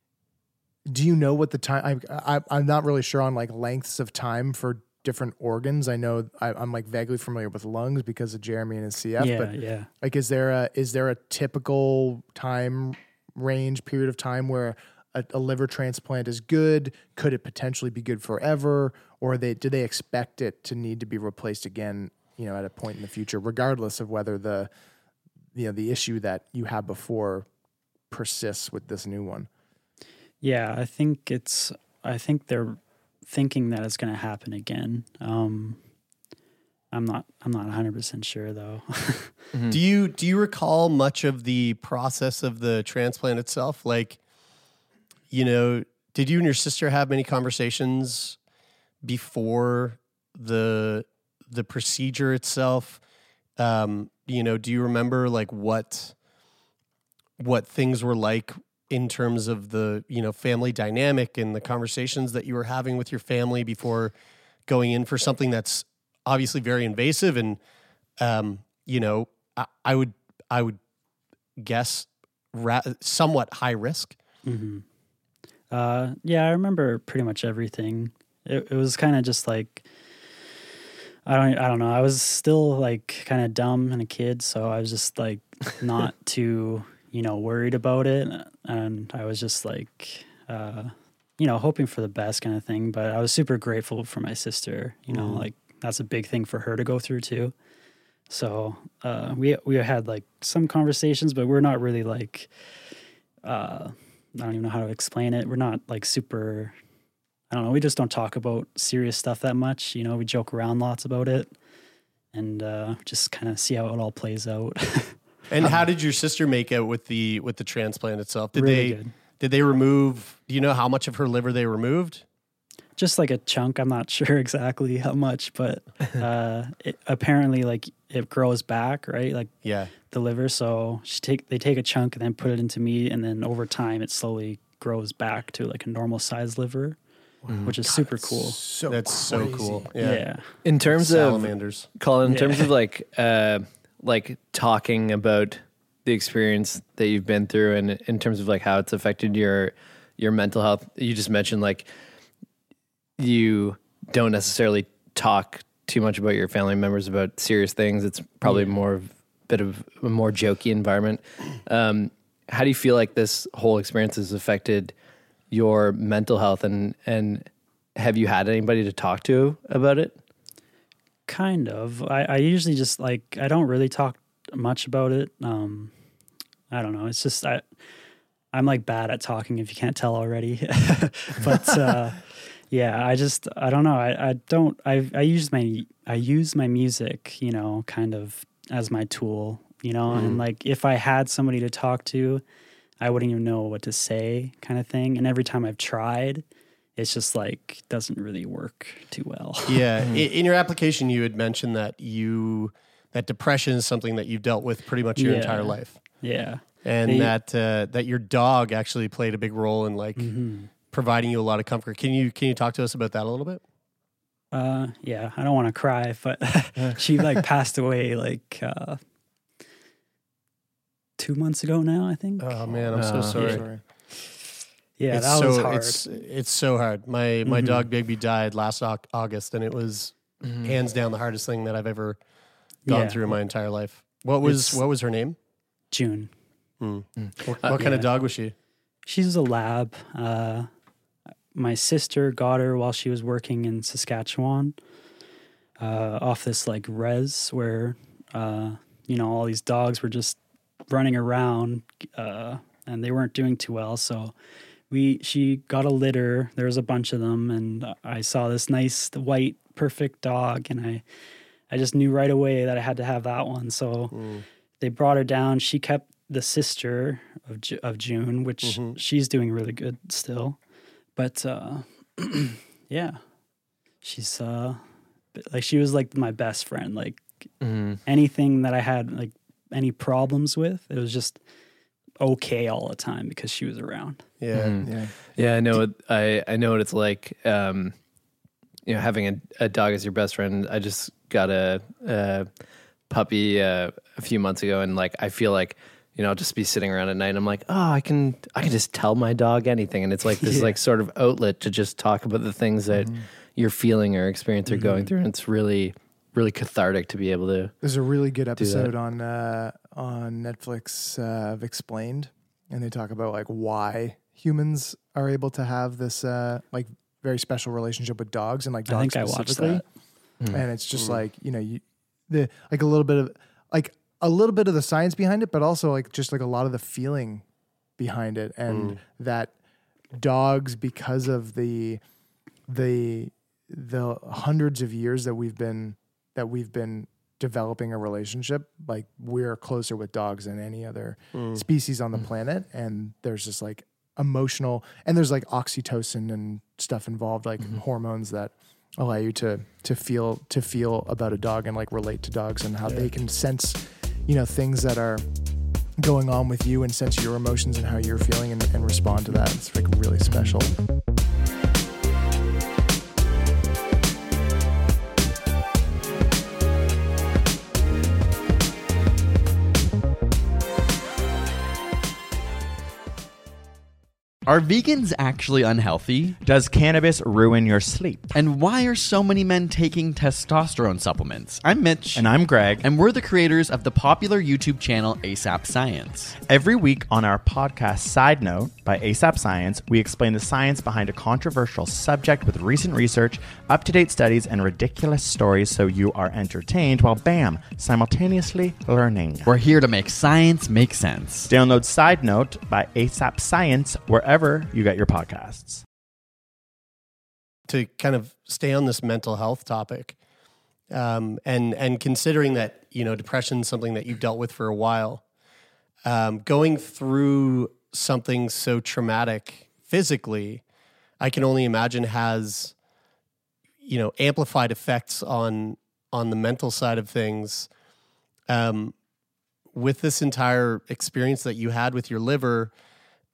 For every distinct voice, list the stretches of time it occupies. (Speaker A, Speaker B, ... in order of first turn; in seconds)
Speaker A: 0.8-24.7, 25.5-27.5, 28.1-29.5, 137.5-139.9, 223.3-223.8, 284.8-285.1, 302.9-303.2, 307.8-319.8, 320.5-327.4, 328.0-329.5, 330.1-332.0, 332.7-355.2, 356.0-360.8
Speaker B: 9.2-9.9, 30.4-35.8, 36.9-39.3, 74.5-74.8, 75.7-79.8, 81.2-97.5, 98.3-102.5, 103.4-106.7, 107.5-111.5, 112.3-115.2, 118.5-119.1, 123.0-129.5, 130.1-137.0, 137.6-138.6, 140.0-140.4, 142.2-142.7, 158.4-158.7, 171.3-175.9, 176.7-177.6, 178.5-192.4, 193.0-196.4, 196.9-199.8, 205.2-207.3, 210.2-210.7, 214.5-219.0, 221.2-222.7, 225.0-226.0, 227.4-227.9, 232.9-233.4, 234.4-234.8, 235.9-236.3, 237.7-238.1, 239.1-240.7, 241.5-244.7, 245.8-254.3, 254.9-261.0, 261.7-264.1, 264.8-270.6, 271.1-273.2, 274.0-274.8, 275.3-277.3, 278.0-281.4, 282.2-284.2, 300.4-300.8, 318.9-319.8
Speaker C: 39.7-44.2, 45.3-48.4, 49.0-53.0, 53.6-56.1, 57.4-64.1, 64.7-67.6, 68.2-70.8, 71.6-74.2, 115.5-122.2, 129.6-129.9, 138.9-141.9, 190.1-190.4, 199.7-206.0, 206.8-213.6, 222.4-223.6, 225.1-232.2, 232.8-235.3, 236.8-238.5, 264.1-264.4, 268.6-269.0, 284.4-284.8, 328.7-329.0, 341.3-341.6, 407.7-410.1, 410.9-415.2, 416.0-420.6, 421.2-422.7, 423.8-427.7, 428.5-428.9, 429.7-432.7
Speaker D: 95.2-95.5, 137.5-137.7, 140.6-151.9, 153.2-164.9, 165.5-170.2, 222.9-223.6, 230.4-230.8, 237.2-237.8, 277.6-278.0, 284.5-287.9, 288.8-292.5, 293.1-307.7, 308.6-308.9, 360.3-360.5
Speaker E: 374.4-376.4, 378.3-386.3, 399.4-401.5
Speaker F: 376.4-378.2, 382.1-382.9, 386.4-399.5, 401.5-405.8